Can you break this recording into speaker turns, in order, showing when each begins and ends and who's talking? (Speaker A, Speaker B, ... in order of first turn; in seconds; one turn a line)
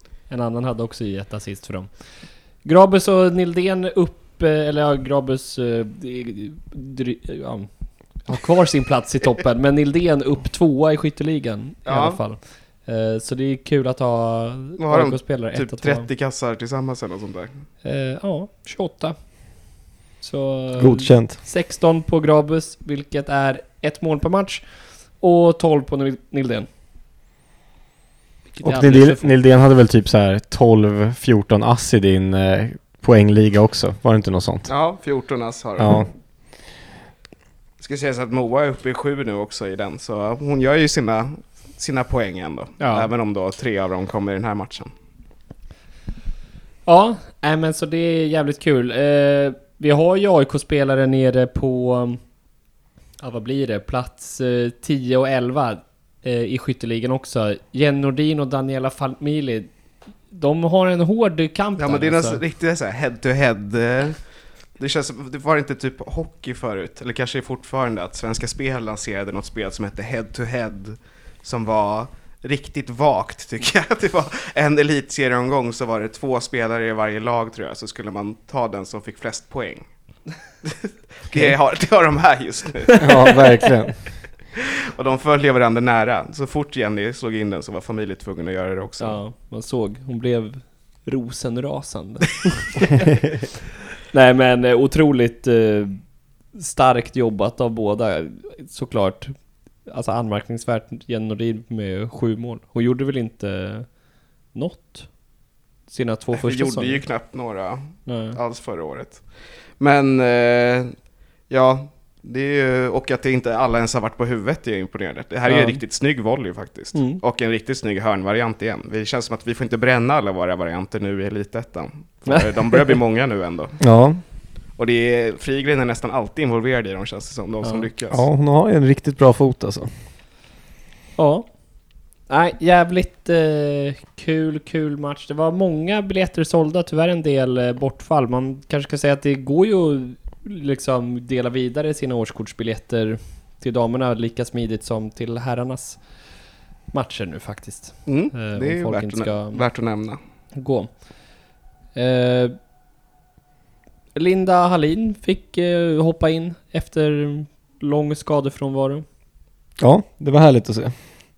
Speaker A: 0.3-16.1
Speaker B: 11.8-12.2
Speaker B: 14.8-17.6
Speaker A: 17.8-26.7
Speaker C: 20.8-21.4
Speaker A: 28.5-29.3
Speaker C: 28.6-34.7
Speaker B: 34.7-36.1
Speaker C: 35.8-36.1
Speaker B: 37.8-44.9
Speaker A: 42.8-43.1
Speaker A: 46.8-52.3
Speaker A: 53.2-62.4
Speaker B: 61.8-64.2
Speaker B: 64.8-79.9
Speaker B: 80.6-83.0
Speaker C: 83.0-84.2
Speaker B: 85.0-89.2
Speaker A: 89.0-93.0
Speaker A: 94.1-105.3
Speaker A: 105.9-107.0
Speaker B: 106.3-123.9
Speaker A: 108.0-108.4
Speaker A: 115.5-115.8
Speaker A: 116.9-117.2
Speaker A: 122.3-123.0
Speaker C: 123.8-124.2
Speaker B: 124.7-128.2
Speaker A: 127.6-127.9
Speaker C: 128.1-129.9
Speaker A: 131.2-149.9
Speaker B: 148.1-150.2
Speaker A: 150.5-151.4
Speaker A: 151.9-152.6
Speaker A: 154.1-159.0
Speaker C: 159.8-161.0